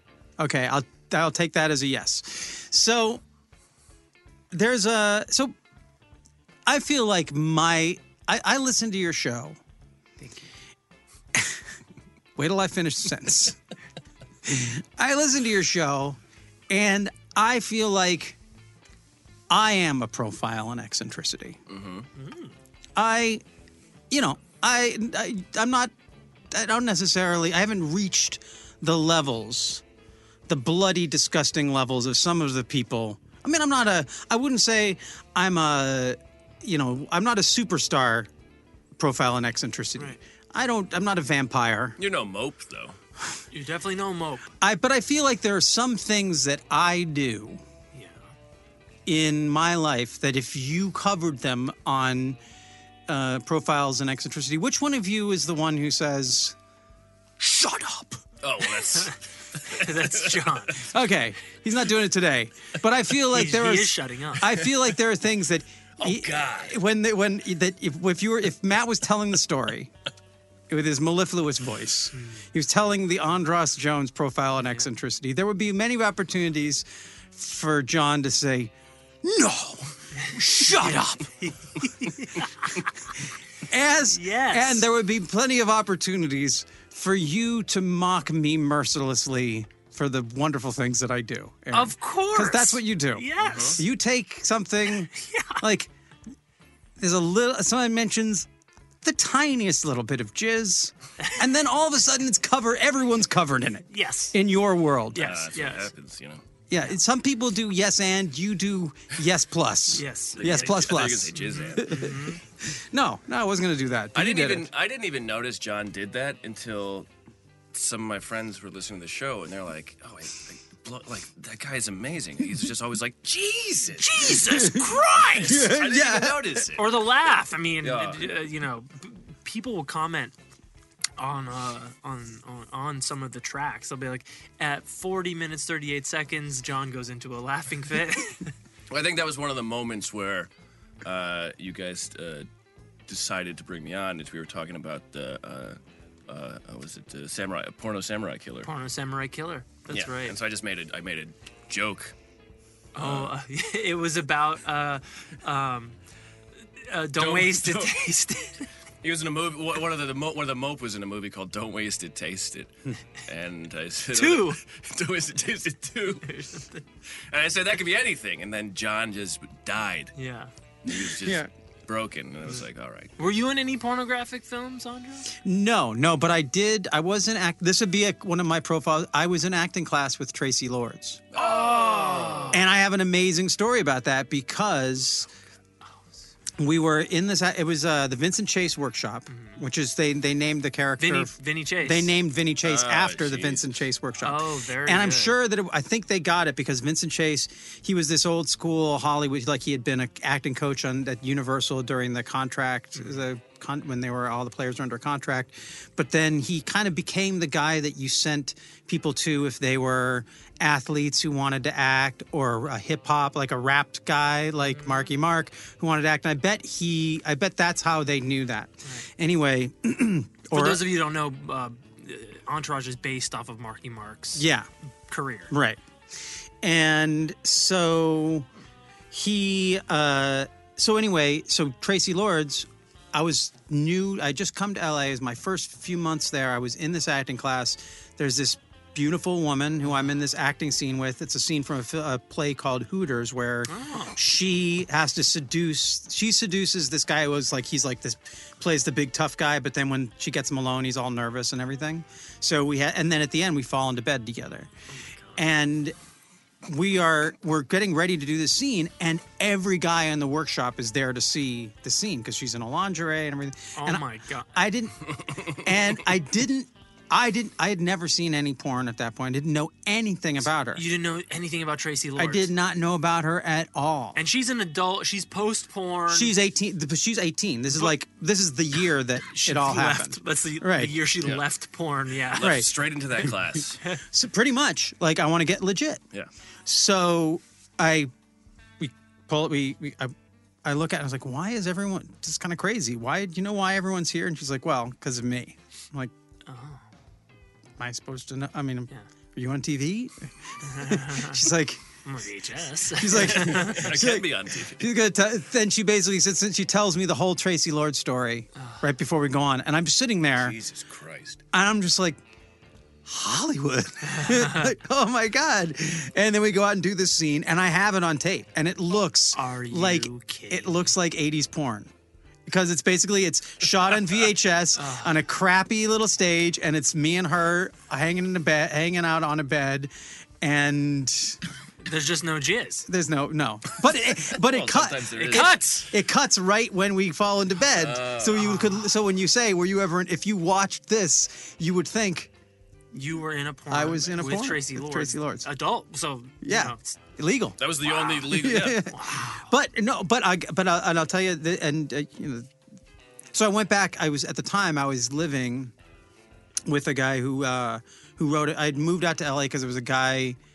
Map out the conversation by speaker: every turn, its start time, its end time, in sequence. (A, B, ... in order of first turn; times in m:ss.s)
0:00.4-0:03.2 A
0:04.5-0:05.5 A
0:06.6-0:09.6 A
0:10.2-0:10.5 B
0:12.4-0:13.6 A
0:14.4-0:16.2 A
0:16.7-0:18.4 A
0:19.5-0:21.6 A
0:21.7-0:22.1 C
0:22.2-0:22.5 B
0:23.0-0:23.4 A
0:24.1-0:25.9 A
0:26.5-0:29.8 A
0:30.5-0:38.3 A
0:39.0-0:42.0 A
0:42.0-0:43.0 C
0:43.5-0:44.4 B
0:44.6-0:47.6 A
0:47.9-0:48.3 B
0:49.0-0:52.4 A
0:53.1-0:56.6 A
0:57.4-0:58.2 A
0:58.4-1:00.5 C
0:58.9-1:00.9 B
1:00.8-1:09.9 A
1:03.3-1:04.6 B
1:06.0-1:06.8 C
1:10.7-1:18.7 A
1:12.2-1:12.4 B
1:19.2-1:21.3 A
1:20.9-1:23.1 B
1:23.6-1:35.9 A
1:24.1-1:24.8 B
1:31.7-1:33.8 B
1:33.4-1:33.8 C
1:35.1-1:35.6 B
1:37.0-1:38.5 A
1:39.0-1:45.3 A
1:43.9-1:44.4 B
1:45.1-1:45.9 B
1:45.2-1:46.4 C
1:46.7-1:54.7 A
1:49.9-1:52.4 B
1:50.4-1:52.2 C
1:54.1-1:57.1 C
1:57.7-2:04.4 C
2:04.0-2:05.7 B
2:04.5-2:06.6 A
2:05.2-2:07.0 C
2:06.8-2:10.3 B
2:07.8-2:08.3 C
2:11.2-2:18.5 B
2:18.9-2:20.5 C
2:21.0-2:22.5 C
2:23.1-2:28.7 C
2:28.6-2:30.4 B
2:29.9-2:32.1 C
2:32.9-2:36.0 B
2:33.0-2:33.3 C
2:36.8-2:38.7 B
2:37.2-2:38.0 C
2:39.0-2:46.3 C
2:44.1-2:44.6 B
2:46.2-2:46.8 B
2:47.2-2:50.1 C
2:50.2-2:50.5 B
2:50.8-2:53.1 C
2:50.9-2:51.5 A
2:53.2-2:55.3 B
2:55.4-3:01.2 A
3:01.3-3:02.6 C
3:01.4-3:02.6 B
3:02.5-3:05.3 A
3:06.6-3:40.9 A
3:09.3-3:09.6 B
3:11.0-3:12.1 B
3:12.6-3:13.8 C
3:14.2-3:15.3 B
3:34.7-3:35.1 B
3:38.8-3:39.1 B
3:40.5-3:44.4 B
3:44.4-3:44.7 A
3:45.1-3:45.5 B
3:45.5-3:45.8 A
3:46.6-3:48.5 A
3:49.1-4:14.7 A
4:03.7-4:04.2 B
4:14.9-4:15.4 B
4:15.4-4:15.9 A
4:16.6-4:30.8 A
4:23.8-4:24.5 B
4:30.7-4:32.5 B
4:32.2-4:34.2 A
4:34.1-4:36.3 B
4:36.1-4:40.9 A
4:39.2-4:42.6 B
4:42.3-4:43.8 C
4:42.4-4:42.7 A
4:44.1-4:46.0 A
4:46.6-4:48.1 A
4:48.8-4:56.1 A
4:56.4-4:56.8 B
4:57.8-5:01.8 A
5:00.6-5:01.4 B
5:02.0-5:03.9 B
5:03.0-5:10.6 A
5:03.2-5:04.9 C
5:10.3-5:11.4 C
5:11.5-5:12.2 A
5:13.0-5:21.9 A
5:14.1-5:14.7 B
5:19.3-5:20.9 B
5:22.4-5:31.4 A
5:24.7-5:25.2 B
5:31.8-5:32.9 B
5:32.9-5:42.3 A
5:34.4-5:35.6 C
5:35.2-5:35.9 B
5:37.7-5:38.5 C
5:38.4-5:38.9 B
5:42.9-5:47.0 B
5:43.7-5:45.5 A
5:46.4-5:52.5 A
5:47.6-5:48.8 C
5:47.8-5:49.5 B
5:53.3-5:55.7 A
5:56.6-6:00.4 A